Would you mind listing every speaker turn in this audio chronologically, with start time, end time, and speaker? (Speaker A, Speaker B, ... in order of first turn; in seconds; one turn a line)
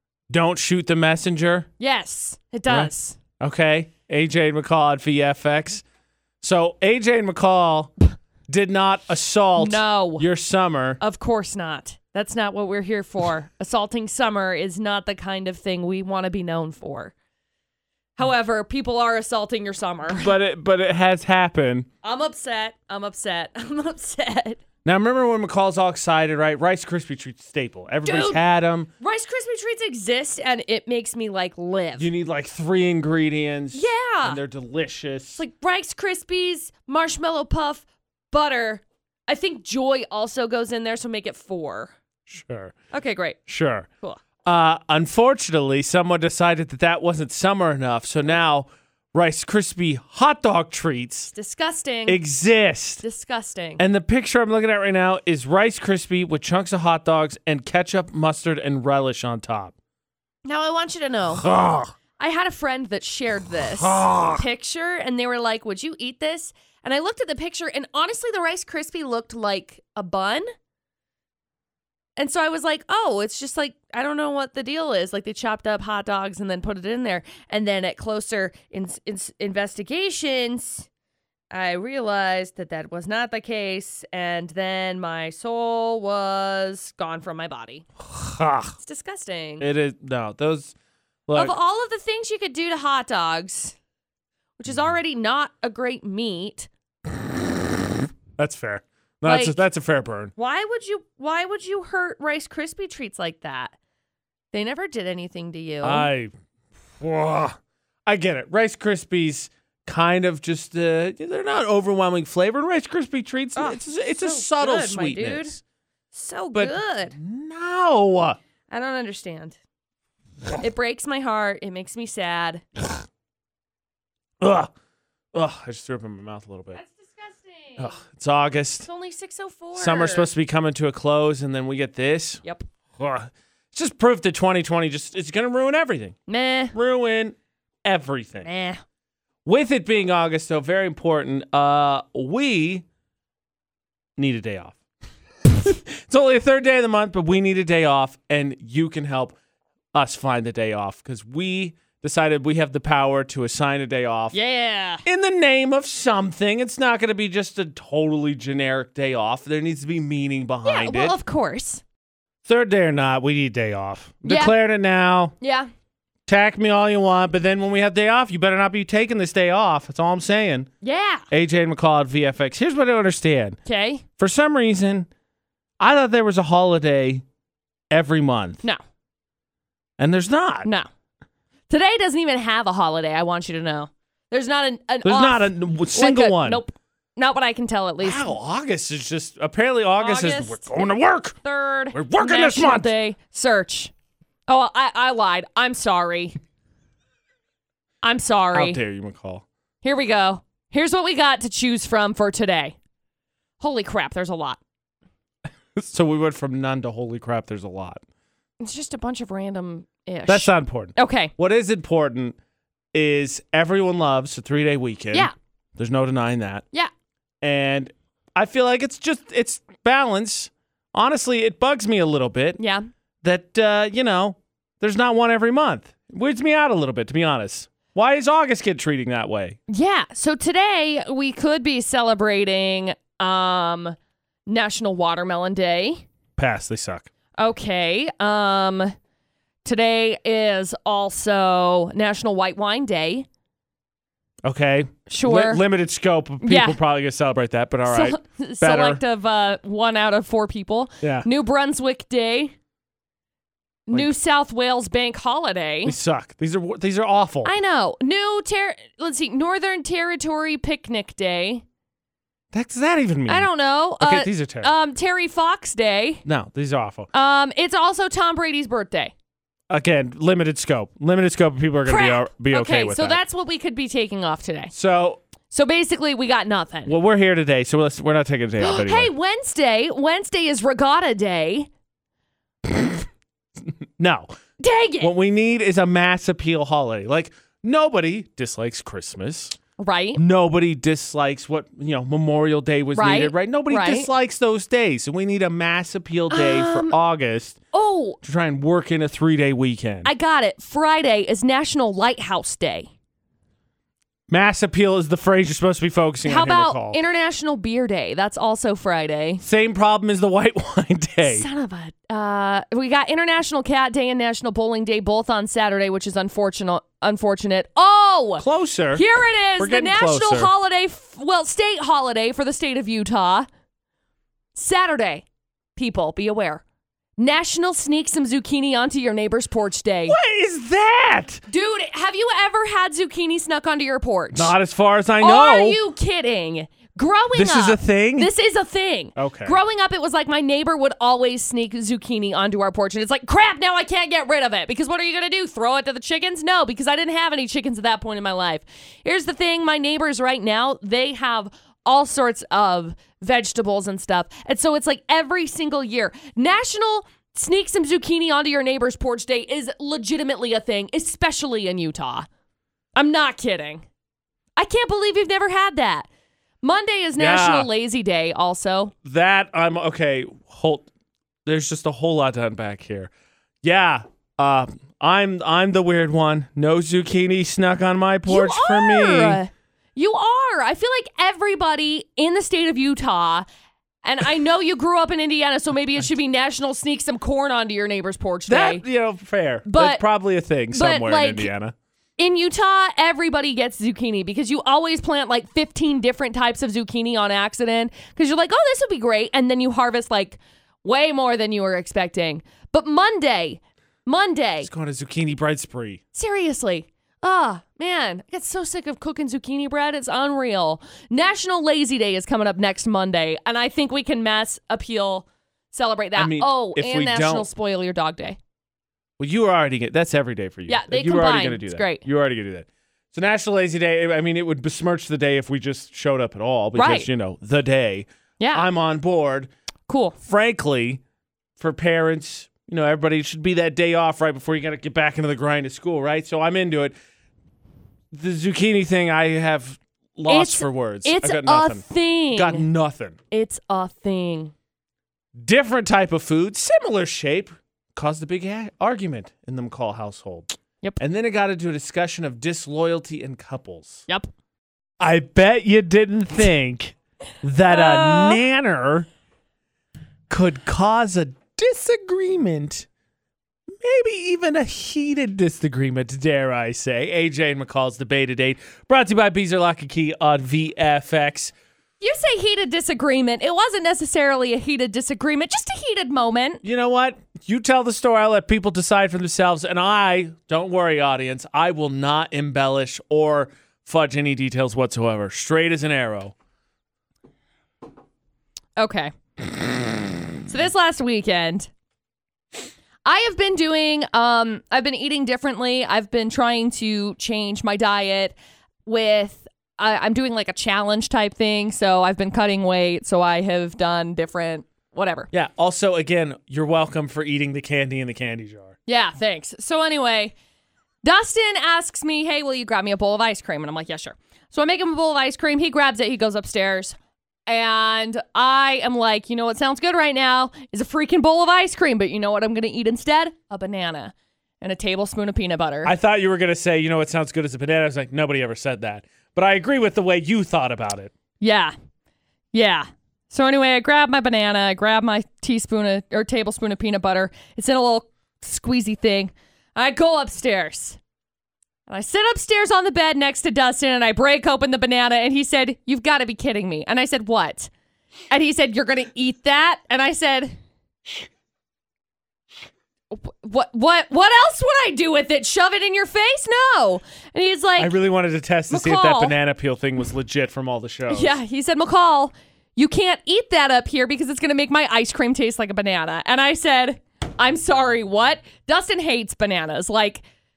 Speaker A: 0.3-1.7
Speaker B: 1.8-3.2
Speaker A: 2.7-5.8
Speaker A: 6.4-7.9
Speaker A: 8.5-11.0
Speaker B: 9.6-10.2
Speaker B: 11.0-17.1
Speaker B: 18.2-20.3
Speaker A: 20.1-21.9
Speaker B: 22.0-24.6
Speaker A: 24.8-28.9
Speaker B: 28.0-28.4
Speaker B: 29.0-32.1
Speaker A: 32.0-35.4
Speaker B: 33.7-34.4
Speaker B: 35.4-41.9
Speaker A: 42.3-42.7
Speaker B: 42.9-43.4
Speaker A: 43.5-43.9
Speaker A: 44.4-51.3
Speaker B: 51.3-52.2
Speaker A: 52.0-53.0
Speaker B: 53.0-53.8
Speaker A: 53.8-59.7
Speaker B: 60.4-61.4
Speaker A: 61.4-61.9
Speaker B: 62.2-70.5
Speaker A: 63.7-64.4
Speaker B: 72.2-80.9
Speaker B: 81.5-87.8
Speaker A: 88.0-88.8
Speaker B: 88.8-89.7
Speaker A: 89.6-90.7
Speaker A: 91.3-91.5
Speaker B: 91.3-93.8
Speaker B: 94.6-96.7
Speaker A: 98.4-100.3
Speaker B: 99.2-99.6
Speaker B: 100.4-103.7
Speaker B: 104.5-106.1
Speaker A: 105.8-106.3
Speaker A: 107.0-115.6
Speaker B: 113.5-115.6
Speaker B: 116.1-117.2
Speaker A: 116.5-118.4
Speaker B: 118.7-119.6
Speaker B: 120.6-122.6
Speaker A: 124.4-124.7
Speaker A: 125.3-126.8
Speaker B: 126.7-127.9
Speaker A: 127.8-128.9
Speaker B: 128.8-130.3
Speaker A: 129.8-132.4
Speaker A: 133.0-136.1
Speaker B: 136.3-136.7
Speaker A: 136.7-138.5
Speaker B: 138.4-138.8
Speaker A: 139.4-142.8
Speaker A: 144.2-144.8
Speaker A: 145.5-149.3
Speaker A: 149.9-154.4
Speaker B: 154.3-155.0
Speaker A: 155.0-161.1
Speaker B: 160.6-161.8
Speaker A: 162.4-165.3
Speaker B: 164.2-164.5
Speaker B: 165.4-165.7
Speaker A: 166.3-170.7
Speaker B: 170.8-171.2
Speaker A: 171.3-173.6
Speaker B: 173.6-174.0
Speaker A: 174.2-175.1
Speaker A: 175.8-177.2
Speaker A: 177.9-178.6
Speaker A: 180.0-180.7
Speaker B: 181.7-188.3
Speaker A: 185.0-186.6
Speaker A: 188.0-191.3
Speaker B: 190.0-190.8
Speaker B: 191.4-193.9
Speaker A: 191.9-192.9
Speaker B: 194.5-196.3
Speaker B: 198.0-198.8
Speaker A: 198.5-199.4
Speaker B: 199.8-202.7
Speaker B: 203.6-204.6
Speaker A: 205.8-208.0
Speaker B: 208.6-211.3
Speaker A: 210.3-212.3
Speaker A: 212.9-216.6
Speaker A: 217.4-222.6
Speaker B: 222.6-222.8
Speaker A: 223.2-229.6
Speaker B: 229.7-233.9
Speaker B: 234.5-236.0
Speaker A: 236.4-237.1
Speaker B: 237.4-238.9
Speaker B: 239.6-243.3
Speaker A: 244.4-249.0
Speaker B: 245.1-245.6
Speaker B: 246.4-246.8
Speaker B: 247.8-252.5
Speaker A: 251.0-251.3
Speaker B: 253.9-255.9
Speaker A: 255.8-257.5
Speaker B: 257.4-261.6
Speaker A: 262.5-264.7
Speaker B: 263.3-266.2
Speaker A: 266.2-267.1
Speaker B: 267.1-269.1
Speaker A: 269.7-273.2
Speaker B: 271.9-274.7
Speaker A: 274.7-275.2
Speaker B: 275.5-276.9
Speaker A: 276.9-279.1
Speaker B: 278.6-281.7
Speaker A: 282.7-283.0
Speaker A: 284.0-284.3
Speaker B: 284.6-285.1
Speaker A: 285.0-289.6
Speaker B: 289.8-290.2
Speaker A: 290.1-297.6
Speaker B: 292.9-294.1
Speaker B: 296.3-296.9
Speaker B: 297.7-298.2
Speaker A: 298.2-300.1
Speaker B: 300.0-302.9
Speaker A: 304.3-307.0
Speaker B: 306.2-309.4
Speaker A: 309.4-311.4
Speaker B: 311.2-323.5
Speaker A: 318.4-319.1
Speaker A: 319.6-320.5
Speaker B: 324.5-325.2
Speaker B: 325.8-326.6
Speaker B: 327.2-330.1
Speaker A: 330.1-331.4
Speaker B: 331.5-334.5
Speaker A: 334.3-335.8
Speaker B: 335.2-362.3
Speaker A: 337.3-338.3
Speaker A: 339.1-339.6
Speaker B: 362.9-363.9
Speaker B: 364.6-366.1
Speaker B: 366.6-368.9
Speaker A: 367.2-367.7
Speaker A: 369.0-370.9
Speaker A: 371.4-373.1
Speaker A: 373.6-379.4
Speaker B: 378.2-383.4
Speaker B: 384.0-388.8
Speaker A: 388.5-391.7
Speaker B: 389.6-390.0
Speaker B: 390.7-391.5
Speaker B: 392.2-404.7
Speaker A: 404.6-406.0
Speaker B: 406.1-418.4
Speaker A: 416.1-417.5
Speaker A: 419.2-429.5
Speaker B: 420.7-422.0
Speaker B: 426.7-427.1
Speaker B: 428.4-428.6
Speaker B: 429.9-430.2
Speaker A: 430.2-431.0
Speaker A: 431.6-436.9
Speaker A: 438.1-443.1
Speaker B: 440.3-442.6
Speaker B: 443.3-444.5
Speaker A: 445.4-454.1
Speaker A: 455.0-459.1
Speaker B: 457.7-458.4
Speaker A: 460.3-462.9
Speaker A: 463.8-471.5
Speaker B: 472.0-476.6
Speaker A: 476.6-486.3
Speaker B: 488.8-489.1
Speaker B: 490.4-491.7
Speaker B: 493.0-505.3
Speaker A: 505.3-508.8
Speaker B: 508.9-510.3
Speaker B: 511.0-525.9
Speaker A: 525.8-531.1
Speaker B: 531.4-531.7
Speaker B: 532.5-541.0
Speaker B: 541.9-547.7
Speaker B: 548.3-550.5
Speaker B: 553.1-557.9
Speaker A: 557.8-561.3
Speaker B: 558.7-559.3
Speaker B: 561.1-570.2